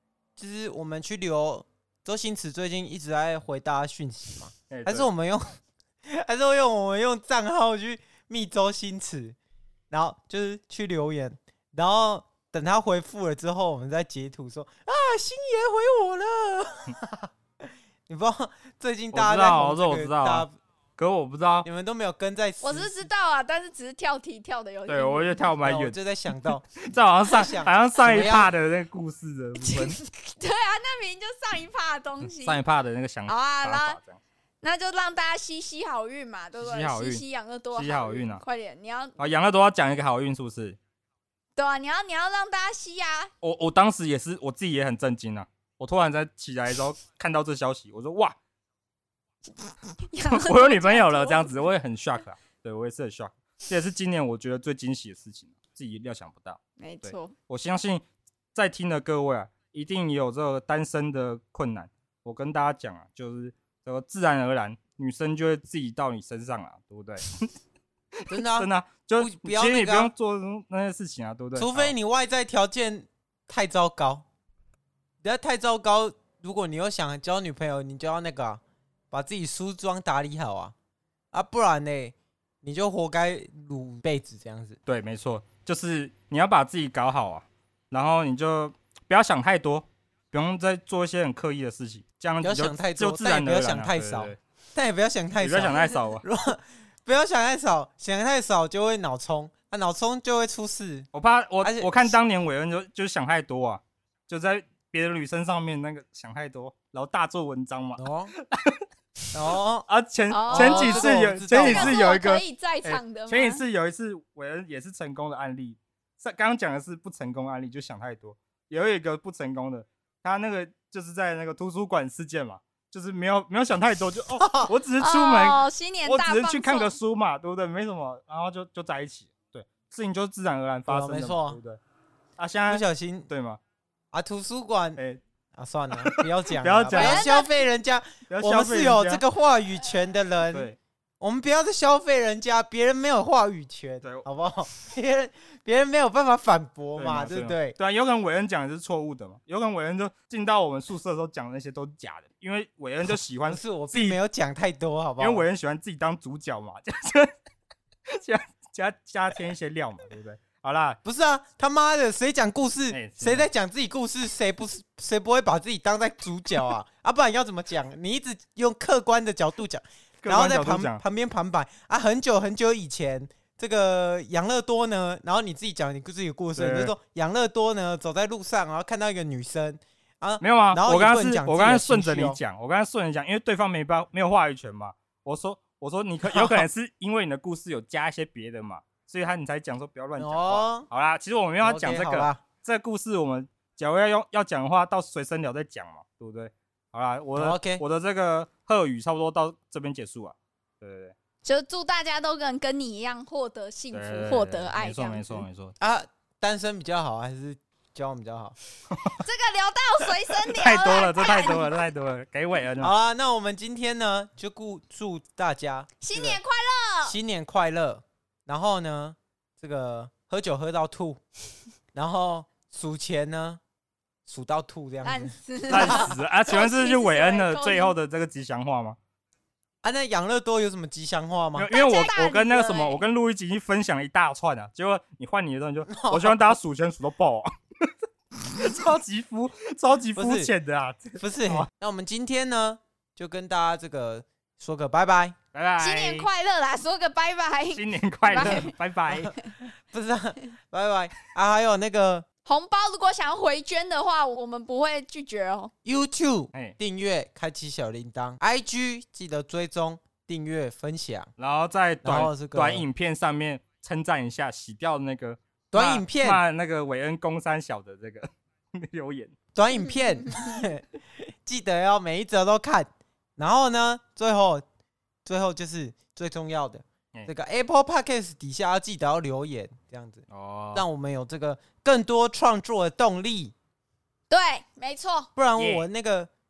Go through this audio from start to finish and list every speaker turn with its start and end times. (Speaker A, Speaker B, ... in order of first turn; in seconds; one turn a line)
Speaker A: 0.3-9.3
Speaker B: 4.7-5.1
Speaker A: 9.9-17.3
Speaker A: 18.1-20.5
Speaker B: 19.1-21.6
Speaker A: 21.6-23.1
Speaker C: 22.6-25.4
Speaker B: 24.9-30.0
Speaker A: 25.6-26.6
Speaker A: 27.3-28.5
Speaker C: 29.6-32.6
Speaker B: 32.2-34.2
Speaker C: 33.3-34.0
Speaker C: 34.6-39.2
Speaker B: 36.6-37.2
Speaker B: 37.7-38.4
Speaker B: 39.2-40.8
Speaker C: 41.5-43.3
Speaker B: 43.4-48.4
Speaker C: 50.1-51.5
Speaker B: 50.3-67.5
Speaker C: 56.8-57.4
Speaker B: 68.2-71.9
Speaker A: 68.3-70.1
Speaker A: 71.5-74.2
Speaker A: 75.2-80.7
Speaker A: 81.3-84.8
Speaker B: 84.8-94.4
Speaker A: 92.4-101.1
Speaker B: 95.4-96.2
Speaker B: 101.1-108.8
Speaker A: 101.6-102.1
Speaker A: 108.0-108.3
Speaker A: 109.3-109.9
Speaker B: 109.9-131.8
Speaker C: 110.3-113.6
Speaker A: 110.5-112.0
Speaker A: 124.4-124.7
Speaker C: 125.0-126.9
Speaker A: 130.9-131.6
Speaker B: 132.4-133.6
Speaker A: 132.7-133.3
Speaker A: 134.1-135.0
Speaker B: 135.0-135.2
Speaker A: 135.5-147.8
Speaker B: 135.9-137.3
Speaker C: 136.9-137.6
Speaker B: 138.3-139.2
Speaker B: 140.5-140.8
Speaker B: 146.9-154.2
Speaker A: 153.5-155.4
Speaker B: 155.2-157.3
Speaker B: 158.1-161.0
Speaker A: 161.0-182.4
Speaker B: 162.9-163.5
Speaker B: 170.2-171.0
Speaker B: 176.5-176.9
Speaker B: 180.4-201.1
Speaker A: 186.3-186.6
Speaker A: 190.2-190.9
Speaker A: 191.6-192.4
Speaker A: 197.3-197.8
Speaker C: 201.4-205.4
Speaker B: 203.9-205.7
Speaker A: 205.8-208.6
Speaker C: 209.2-211.8
Speaker B: 210.5-212.9
Speaker A: 212.8-216.4
Speaker C: 216.0-217.2
Speaker A: 217.0-221.2
Speaker A: 221.9-223.6
Speaker A: 224.2-226.0
Speaker C: 225.0-227.9
Speaker B: 225.7-229.0
Speaker A: 229.8-231.7
Speaker B: 231.5-241.7
Speaker C: 231.7-233.0
Speaker A: 235.9-236.5
Speaker A: 240.2-240.5
Speaker A: 241.2-245.3
Speaker B: 245.5-246.3
Speaker C: 245.8-248.8
Speaker B: 247.7-249.3
Speaker A: 248.3-252.2
Speaker C: 252.4-255.7
Speaker A: 255.8-261.3
Speaker B: 261.4-269.3
Speaker A: 262.0-262.8
Speaker A: 265.7-266.4
Speaker A: 269.5-274.6
Speaker A: 275.2-283.5
Speaker B: 280.3-280.8
Speaker C: 284.3-285.3
Speaker A: 285.4-286.3
Speaker B: 285.6-285.9